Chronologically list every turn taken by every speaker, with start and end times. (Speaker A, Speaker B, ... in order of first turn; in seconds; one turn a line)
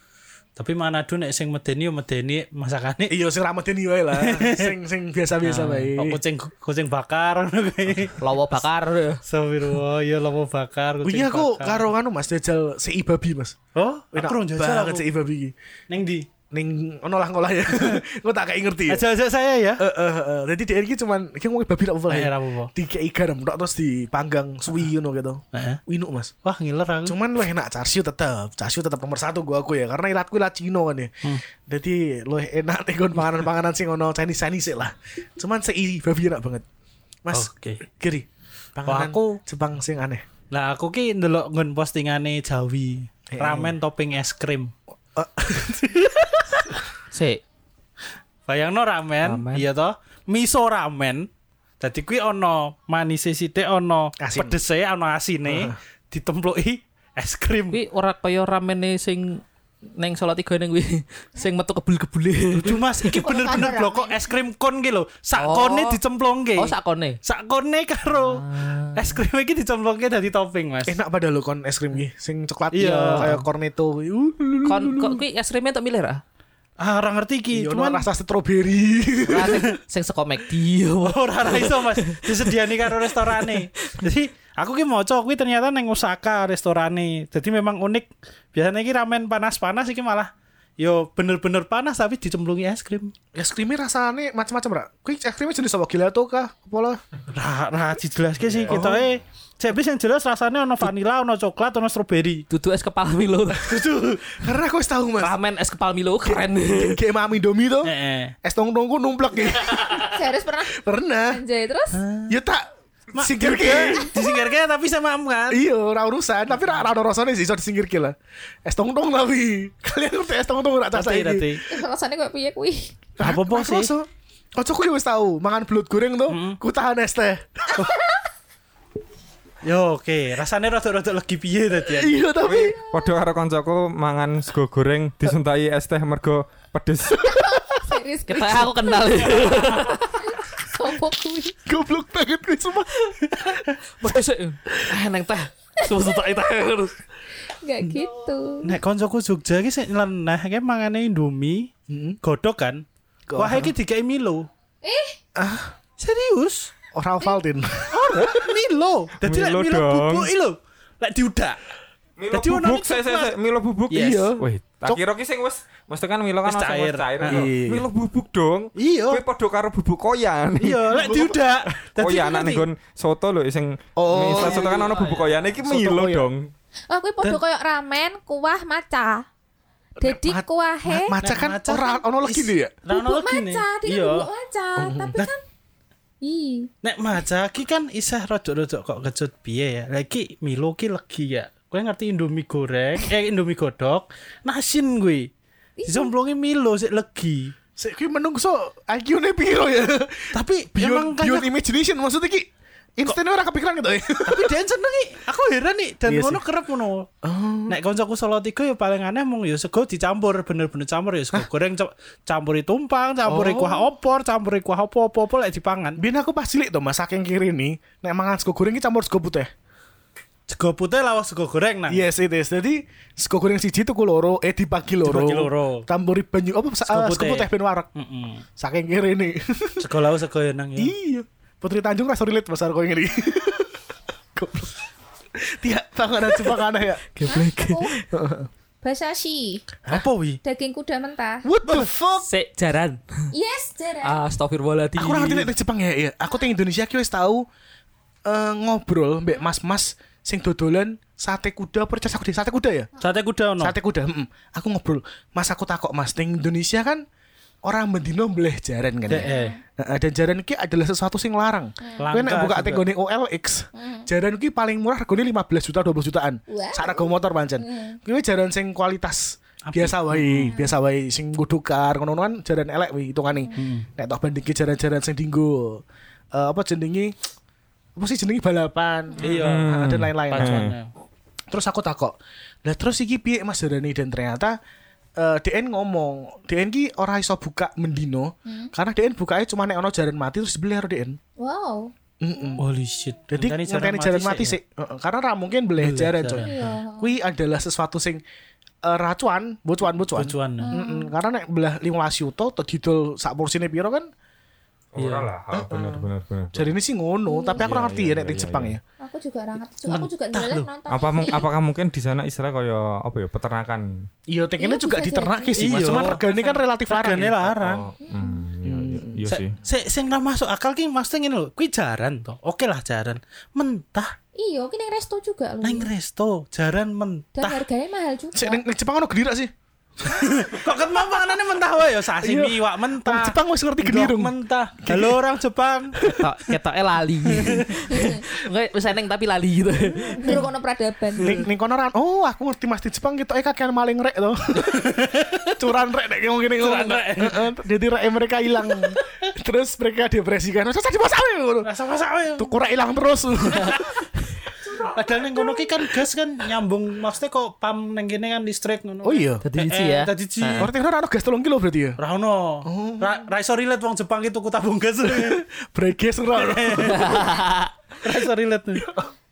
Speaker A: 0.6-3.1
Speaker B: 3.1-6.2
Speaker A: 4.1-4.8
Speaker C: 5.4-5.9
Speaker A: 6.0-8.2
Speaker C: 8.2-9.2
Speaker A: 9.2-11.9
Speaker B: 11.0-13.6
Speaker A: 13.8-15.1
Speaker B: 14.1-15.5
Speaker A: 15.9-16.3
Speaker B: 16.5-19.0
Speaker A: 18.9-19.8
Speaker B: 19.8-26.3
Speaker A: 22.1-22.7
Speaker A: 25.5-25.8
Speaker A: 26.4-27.2
Speaker B: 27.1-36.6
Speaker B: 37.2-40.2
Speaker A: 37.3-37.8
Speaker A: 38.9-39.4
Speaker A: 40.5-44.7
Speaker B: 43.3-43.8
Speaker B: 45.1-46.7
Speaker C: 47.1-47.4
Speaker A: 48.5-51.3
Speaker C: 49.2-49.6
Speaker A: 51.8-57.8
Speaker B: 54.2-54.6
Speaker B: 55.5-55.8
Speaker C: 57.7-59.4
Speaker C: 60.0-62.9
Speaker A: 62.6-71.0
Speaker D: 63.2-64.2
Speaker C: 65.4-66.0
Speaker C: 66.6-67.2
Speaker C: 68.1-69.2
Speaker B: 70.9-75.2
Speaker A: 72.7-73.3
Speaker C: 72.8-73.5
Speaker C: 74.6-76.2
Speaker A: 76.8-78.1
Speaker B: 77.5-79.7
Speaker C: 79.2-82.3
Speaker A: 81.0-93.1
Speaker B: 93.3-97.0
Speaker A: 97.3-102.5
Speaker B: 98.7-99.0
Speaker C: 102.5-103.7
Speaker B: 103.6-105.3
Speaker A: 103.9-104.2
Speaker C: 105.2-107.0
Speaker B: 106.2-107.9
Speaker A: 107.8-108.3
Speaker B: 108.4-110.0
Speaker C: 109.7-110.0
Speaker D: 110.0-112.0
Speaker B: 110.7-111.4
Speaker A: 111.9-112.3
Speaker B: 112.3-114.1
Speaker A: 113.1-115.6
Speaker D: 114.0-114.3
Speaker B: 115.5-121.6
Speaker A: 120.9-121.7
Speaker D: 121.7-123.0
Speaker B: 123.2-127.9
Speaker A: 123.2-123.9
Speaker A: 126.3-126.6
Speaker A: 129.6-132.2
Speaker B: 131.9-132.8
Speaker E: 132.4-137.4
Speaker D: 132.5-133.1
Speaker D: 137.2-141.6
Speaker C: 138.3-140.2
Speaker B: 141.7-142.9
Speaker C: 144.0-147.0
Speaker D: 147.5-148.7
Speaker A: 148.6-151.7
Speaker B: 151.9-152.2
Speaker A: 152.2-152.8
Speaker B: 153.3-153.7
Speaker A: 153.4-154.5
Speaker D: 154.8-155.2
Speaker B: 155.4-155.7
Speaker A: 156.0-156.7
Speaker B: 156.9-158.6
Speaker A: 157.9-161.6
Speaker E: 159.2-160.3
Speaker E: 162.2-171.2
Speaker A: 162.3-163.3
Speaker A: 163.9-164.3
Speaker B: 163.9-165.0
Speaker A: 166.4-167.5
Speaker B: 167.2-167.9
Speaker A: 168.8-169.2
Speaker A: 170.6-172.6
Speaker B: 170.9-171.4
Speaker E: 172.0-176.5
Speaker B: 174.0-175.0
Speaker A: 174.4-174.8
Speaker C: 174.4-175.1
Speaker B: 175.6-176.3
Speaker D: 176.9-179.3
Speaker B: 180.0-182.7
Speaker D: 180.0-181.2
Speaker A: 181.2-184.3
Speaker D: 182.9-185.4
Speaker B: 184.8-185.2
Speaker D: 186.2-186.7
Speaker A: 186.8-195.3
Speaker D: 195.8-196.1
Speaker A: 195.9-197.5
Speaker B: 197.8-204.6
Speaker A: 200.3-201.5
Speaker A: 204.2-207.1
Speaker B: 206.1-206.4
Speaker B: 207.2-207.8
Speaker A: 207.7-216.0
Speaker B: 213.3-213.9
Speaker B: 216.0-219.5
Speaker A: 220.5-222.0
Speaker B: 221.9-227.9
Speaker A: 225.0-225.9
Speaker A: 226.9-228.4
Speaker B: 228.6-229.9
Speaker A: 229.8-230.9
Speaker B: 230.8-233.8
Speaker B: 234.4-234.8
Speaker B: 235.4-237.0
Speaker C: 237.1-238.1
Speaker D: 237.3-237.9
Speaker B: 238.1-238.5
Speaker D: 238.8-239.7
Speaker A: 239.9-240.4
Speaker D: 240.4-241.4
Speaker B: 241.4-242.3
Speaker C: 242.2-243.3
Speaker D: 243.3-244.2
Speaker C: 244.0-245.5
Speaker B: 245.0-247.4
Speaker B: 248.3-252.9
Speaker A: 253.0-253.7
Speaker B: 253.6-257.0
Speaker B: 257.6-275.8
Speaker A: 259.1-259.6
Speaker D: 259.1-259.6
Speaker D: 261.8-262.1
Speaker A: 262.0-262.9
Speaker D: 263.8-264.1
Speaker D: 266.5-268.0
Speaker A: 269.7-270.6
Speaker A: 273.6-273.9
Speaker B: 276.3-277.1
Speaker B: 277.9-280.7
Speaker A: 279.2-279.7
Speaker E: 279.4-280.7
Speaker A: 280.3-280.9
Speaker B: 281.5-284.6
Speaker B: 285.2-291.2
Speaker D: 288.4-288.7
Speaker D: 291.4-291.9
Speaker B: 292.2-292.6
Speaker A: 292.6-294.6
Speaker B: 293.3-298.2
Speaker A: 295.8-296.7
Speaker D: 296.4-297.1
Speaker B: 298.8-304.1
Speaker A: 300.1-300.8
Speaker D: 300.6-301.1
Speaker E: 304.9-306.7
Speaker A: 305.0-305.3
Speaker B: 305.5-308.8
Speaker D: 307.3-307.7
Speaker E: 307.6-308.8
Speaker D: 309.0-311.5
Speaker A: 309.9-310.7
Speaker E: 310.9-314.1
Speaker B: 314.3-317.3
Speaker D: 314.6-316.2
Speaker A: 315.6-317.9
Speaker E: 317.5-319.6
Speaker D: 318.0-318.4
Speaker B: 318.6-319.2
Speaker A: 319.3-324.1
Speaker D: 324.4-325.9
Speaker A: 325.6-327.6
Speaker D: 327.4-328.6
Speaker B: 328.3-329.5
Speaker A: 330.1-336.5
Speaker B: 332.2-335.2
Speaker C: 336.2-340.5
Speaker A: 337.3-337.8
Speaker D: 337.9-338.2
Speaker D: 340.1-341.4
Speaker B: 341.2-351.7
Speaker A: 344.7-345.6
Speaker A: 346.6-347.5
Speaker A: 351.6-352.5
Speaker B: 352.4-354.1
Speaker A: 354.8-360.7
Speaker B: 359.0-359.4
Speaker C: 359.4-360.7
Speaker B: 360.6-362.0
Speaker A: 362.0-365.4
Speaker B: 362.6-363.2
Speaker B: 365.0-367.3
Speaker A: 366.4-367.2
Speaker C: 366.8-367.7
Speaker A: 368.0-368.9
Speaker B: 368.7-369.1